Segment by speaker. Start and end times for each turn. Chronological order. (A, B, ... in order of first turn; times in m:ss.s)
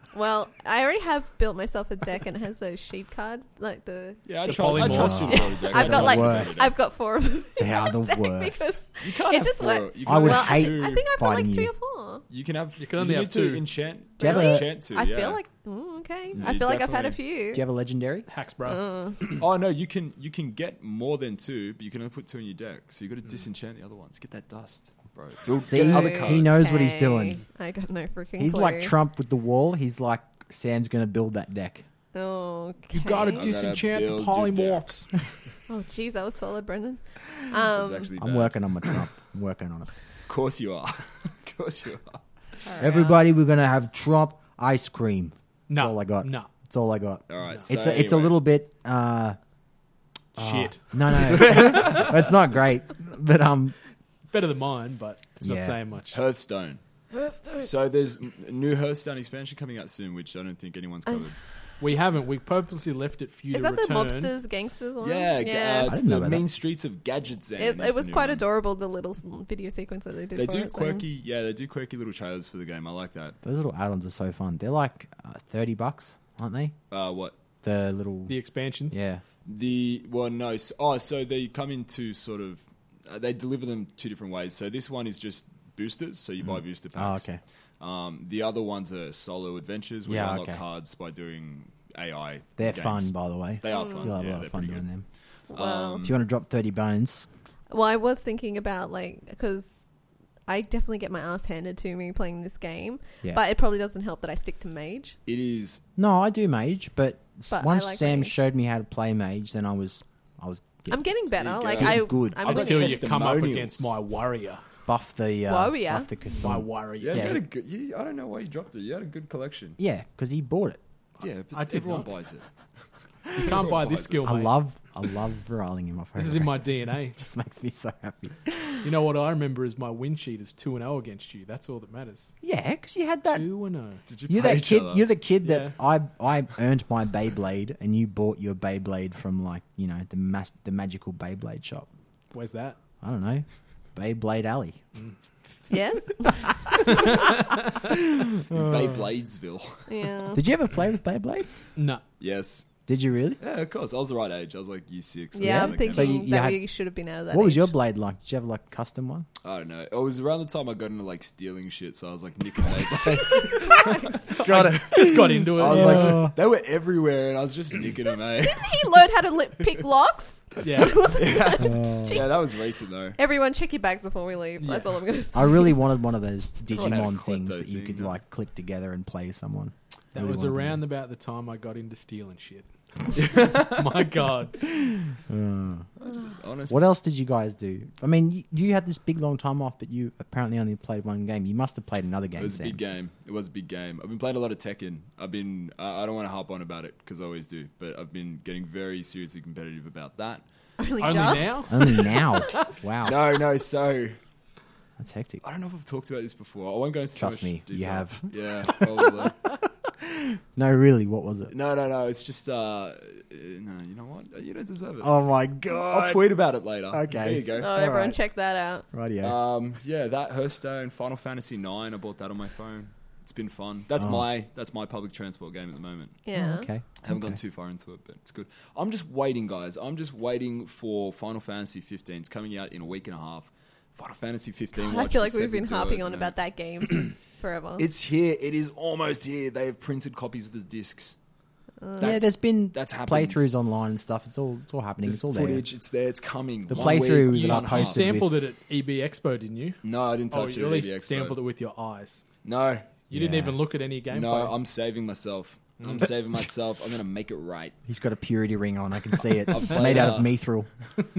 0:00.1-0:12.2 A
0:04.2-0:06.7 B
0:04.4-0:05.6 C
0:04.7-0:06.7 D
0:07.6-0:08.8 D
0:09.0-0:11.0 B
0:10.0-0:11.7 D
0:12.3-0:15.4 B
0:12.8-0:13.7 C
0:14.2-0:17.6 A
0:14.2-0:14.7 D
0:16.4-0:17.2 B
0:17.5-0:18.3 D
0:18.3-0:18.8 C
0:18.6-0:19.4 A
0:19.4-0:26.6 B
0:25.6-0:27.4 D
0:25.7-0:28.9 A
0:28.4-0:31.8 D
0:32.1-0:33.4 A
0:32.9-0:35.1 C
0:33.3-0:34.8 B
0:35.7-0:38.1 A
0:37.7-0:39.0 B
0:38.2-0:39.9 D
0:40.3-0:42.2 B
0:42.6-0:43.2 A
0:42.8-0:49.4 D
0:45.7-0:46.5 C
0:47.3-0:48.4 B
0:50.4-0:51.3 C
0:50.4-0:53.8 D
0:51.1-0:52.2 B
0:54.3-0:56.2 C
0:55.4-0:55.8 D
0:56.1-0:56.8 B
0:57.2-0:57.6 A
0:57.6-1:01.4 B
1:01.8-1:04.3 C
1:03.5-1:06.0 A
1:05.0-1:08.4 B
1:05.8-1:06.5 D
1:07.6-1:11.0 A
1:10.3-1:13.4 B
1:13.4-1:16.8 D
1:16.9-1:17.4 B
1:17.6-1:18.3 D
1:18.3-1:19.0 C
1:18.9-1:19.2 D
1:19.4-1:27.2 B
1:26.9-1:27.4 D
1:27.8-1:34.9 B
1:30.0-1:30.6 D
1:32.6-1:35.0 D
1:33.7-1:34.1 A
1:35.5-1:36.2 B
1:35.5-1:36.1 A
1:36.0-1:37.3 D
1:37.7-1:39.8 A
1:40.5-1:45.2 A
1:45.2-1:45.8 B
1:46.0-1:51.1 D
1:47.5-1:48.4 A
1:50.9-1:53.0 A
1:51.4-1:53.9 B
1:51.7-1:52.6 D
1:52.4-1:54.6 C
1:54.9-1:57.4 D
1:55.5-1:56.1 A
1:56.3-1:57.4 C
1:57.0-1:59.8 B
1:59.8-2:00.8 D
2:01.2-2:02.4 B
2:01.5-2:02.1 C
2:03.3-2:04.2 B
2:03.3-2:04.5 C
2:04.2-2:08.9 D
2:06.2-2:07.2 C
2:08.8-2:12.3 C
2:12.4-2:13.5 D
2:13.3-2:14.0 C
2:14.1-2:15.1 B
2:14.3-2:21.9 D
2:15.4-2:15.7 C
2:22.3-2:22.8 C
2:23.0-2:24.8 D
2:25.7-2:26.7 A
2:26.9-2:27.2 D
2:27.8-2:29.0 D
2:28.5-2:30.1 B
2:29.9-2:30.4 A
2:30.3-2:31.6 D
2:31.8-2:32.0 C
2:32.2-2:32.7 B
2:32.9-2:33.4 D
2:33.4-2:36.3 B
2:35.3-2:37.7 A
2:35.4-2:36.6 D
2:37.3-2:39.3 D
2:39.4-2:48.9 B
2:43.0-2:44.4 A
2:44.3-2:46.2 C
2:44.4-2:46.3 D
2:48.4-2:52.6 A
2:50.6-2:51.1 C
2:51.1-2:53.2 B
2:51.6-2:52.2 D
2:53.2-2:55.8 A
2:54.6-2:55.0 C
2:55.3-3:00.8 D
2:56.7-2:58.2 B
3:00.1-3:04.6 C
3:03.2-3:03.8 B
3:04.7-3:05.9 D
3:06.0-3:06.8 B
3:06.7-3:12.8 D
3:12.4-3:20.4 B
3:20.8-3:22.0 A
3:21.0-3:22.1 C
3:21.0-3:21.4 B
3:21.7-3:23.4 D
3:23.0-3:24.2 B
3:25.0-3:25.4 D
3:25.4-3:29.4 B
3:27.1-3:31.5 D
3:31.5-3:35.2 B
3:35.0-3:36.3 D
3:35.7-3:37.7 B
3:36.9-3:38.2 D
3:37.6-3:38.8 A
3:38.9-3:39.4 D
3:39.2-3:46.2 B
3:46.2-3:46.7 A
3:46.3-3:47.4 D
3:47.0-3:56.4 B
3:54.7-3:57.8 A
3:57.8-4:01.2 B
4:01.8-4:02.2 A
4:02.0-4:03.4 B
4:02.0-4:05.7 D
4:05.0-4:08.1 B
4:06.7-4:08.5 D
4:07.1-4:09.8 C
4:09.8-4:11.4 B
4:10.3-4:12.2 C
4:12.4-4:13.0 B
4:13.1-4:14.5 C
4:13.1-4:13.6 D
4:14.1-4:17.7 B
4:15.8-4:16.1 C
4:17.8-4:20.7 D
4:19.5-4:20.3 B